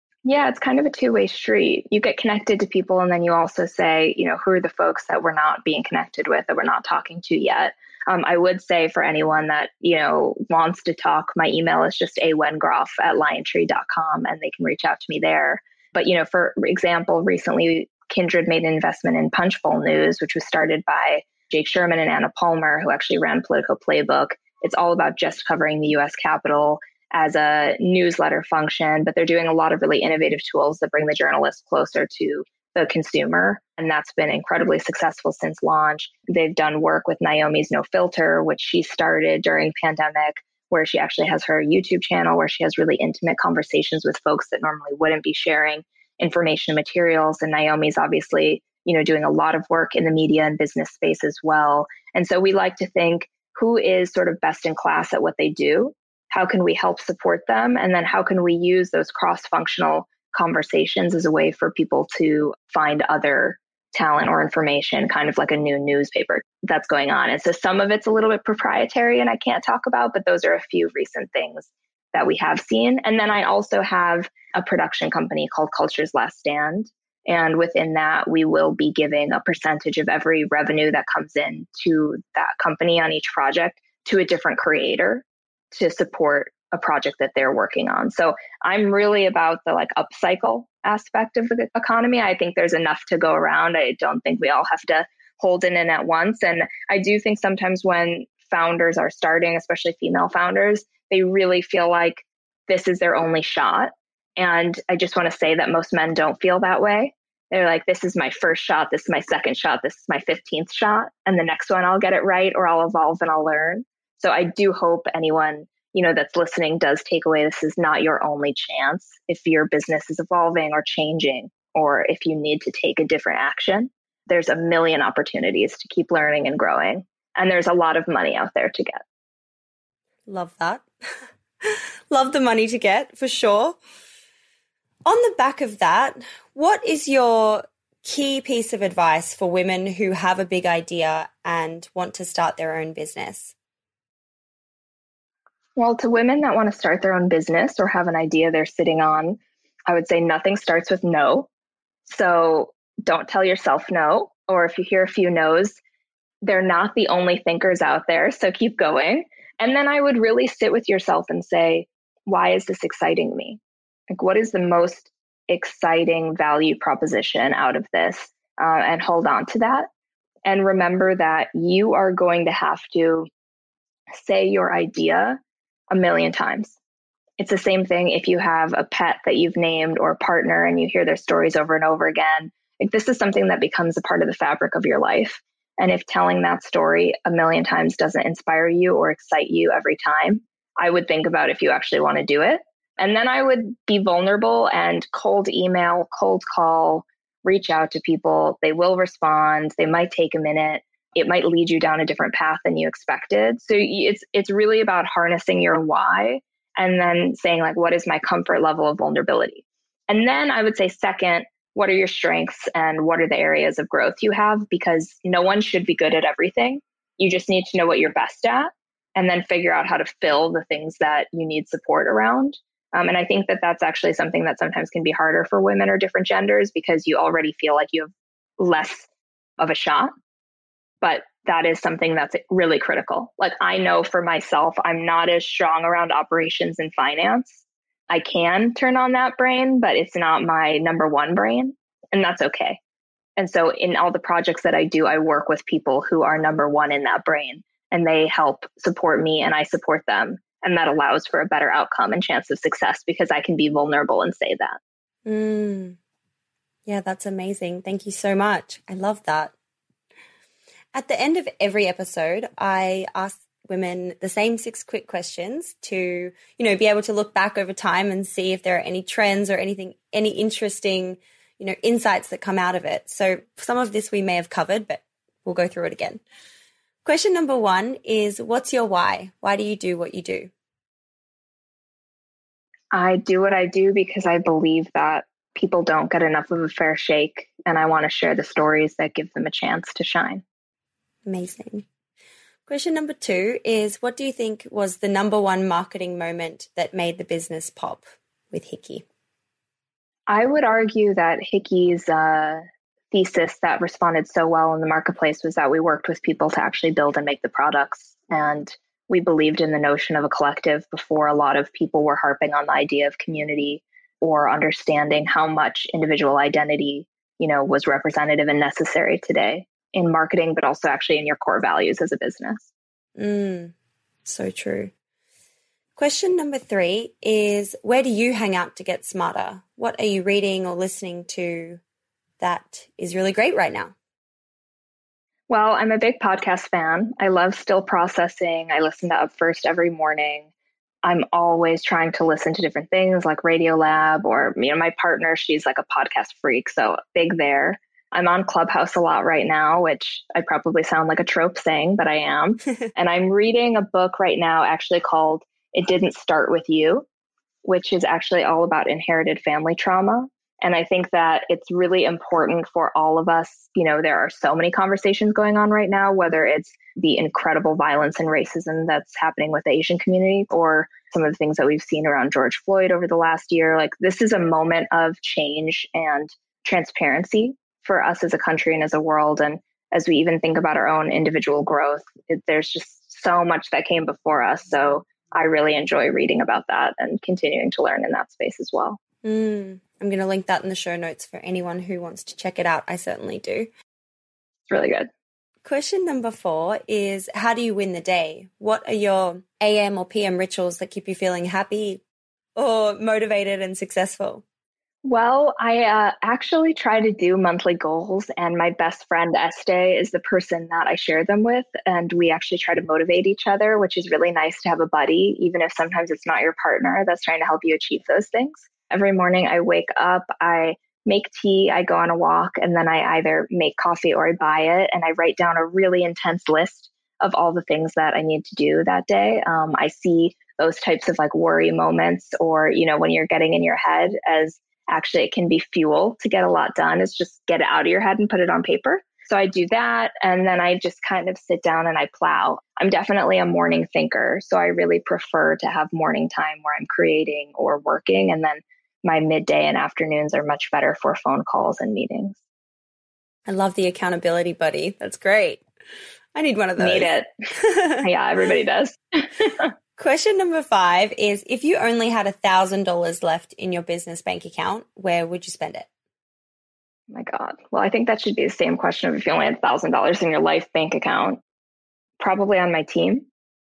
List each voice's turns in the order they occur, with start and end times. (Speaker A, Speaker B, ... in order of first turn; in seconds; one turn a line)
Speaker A: 0.2-129.0
Speaker B: 130.3-130.8
Speaker B: 131.6-133.8
Speaker B: 135.1-143.5
Speaker A: 145.8-151.5
Speaker A: 152.1-155.8
Speaker A: 156.4-163.6
Speaker A: 164.1-169.9
Speaker A: 170.4-173.3
Speaker A: 174.1-175.4
Speaker A: 175.9-176.8
Speaker A: 177.4-229.1
Speaker A: 229.6-230.1
Speaker A: 231.0-242.8
Speaker A: 243.4-254.8
Speaker B: 255.3-256.0
Speaker B: 256.9-259.5
Speaker B: 260.9-276.2
Speaker B: 277.1-280.5
Speaker A: 282.9-290.4
Speaker B: 291.2-291.9
Speaker B: 292.7-299.1
Speaker A: 300.3-322.7
Speaker B: 323.2-323.7
Speaker B: 324.2-324.9
Speaker B: 326.0-331.8
Speaker B: 332.4-333.9
Speaker A: 335.5-340.5
Speaker A: 341.0-357.1
Speaker A: 357.6-389.0
Speaker B: 389.2-393.7
Speaker A: 394.7-395.1
Speaker B: 395.6-402.0
Speaker B: 402.6-404.4
Speaker A: 405.0-452.4
Speaker B: 453.5-455.6
Speaker B: 456.3-458.0
Speaker A: 456.8-457.3
Speaker A: 458.0-459.7
Speaker B: 460.0-465.9
Speaker A: 467.1-471.4
Speaker A: 472.2-473.3